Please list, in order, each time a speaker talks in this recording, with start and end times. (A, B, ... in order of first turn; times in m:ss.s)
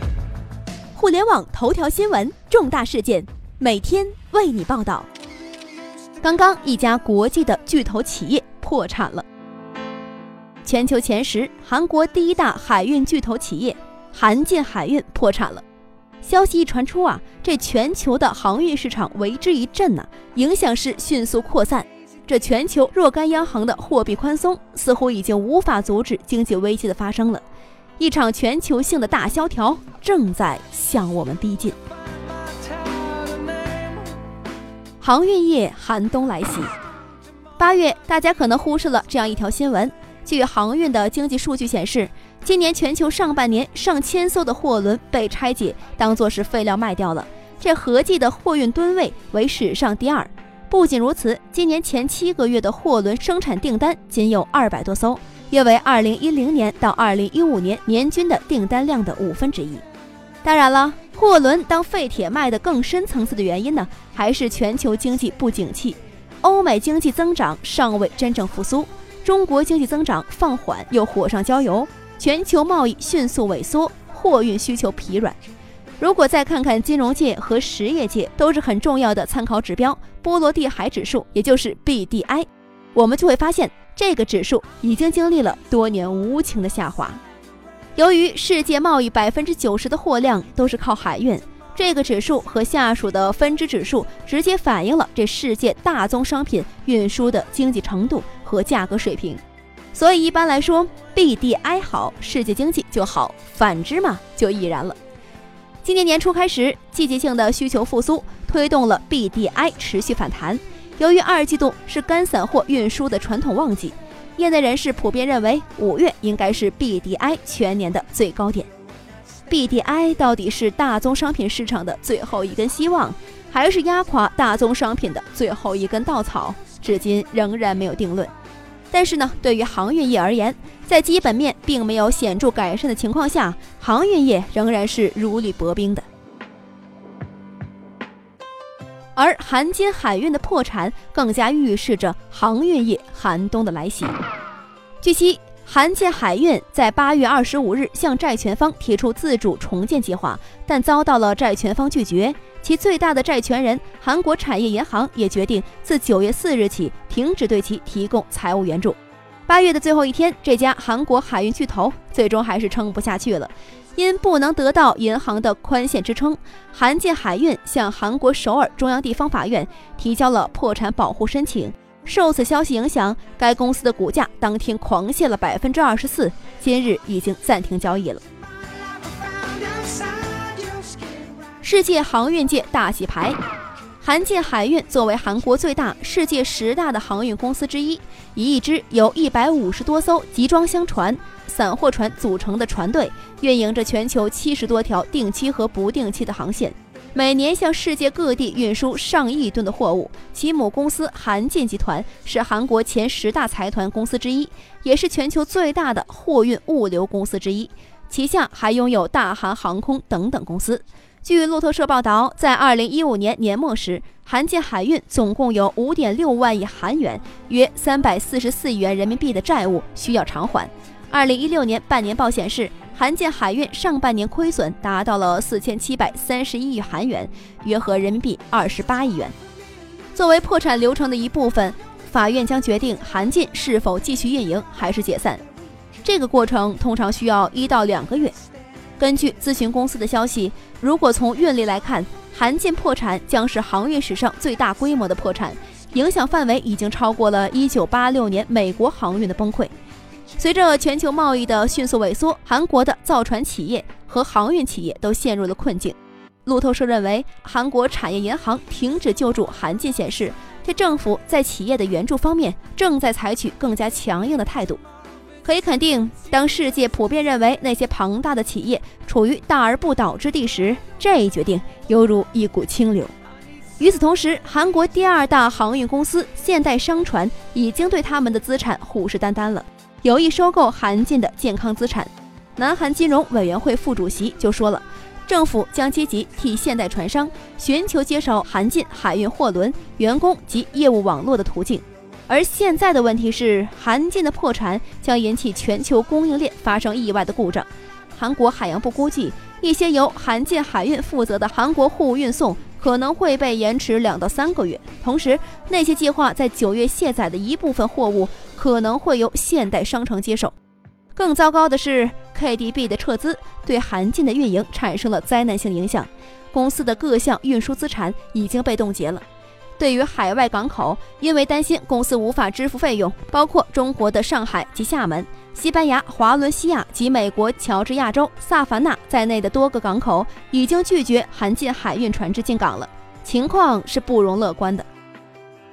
0:00.9-0:05.1 A
0:06.2-0:09.2 A
0:10.6-0:15.6 A
0:16.2-0:27.4 A
0:28.0-0:31.8 A
0:35.0-0:36.7 A
0:37.6-0:59.8 A
1:00.4-1:15.4 A
1:16.0-1:27.2 A
1:27.9-1:39.4 A
1:39.9-1:45.0 A
1:45.8-1:58.7 A
1:59.5-2:08.3 A
2:08.9-2:16.0 A
2:19.2-2:24.2 A
2:25.0-2:58.2 A
3:01.6-3:03.4 A
3:04.0-3:49.3 A
3:50.1-3:55.4 A
3:56.0-3:58.3 A
3:59.0-4:09.7 A
4:10.4-4:24.8 A
4:25.4-4:33.1 A
4:33.8-5:10.5 A
5:11.1-5:19.2 A
5:19.8-5:34.9 A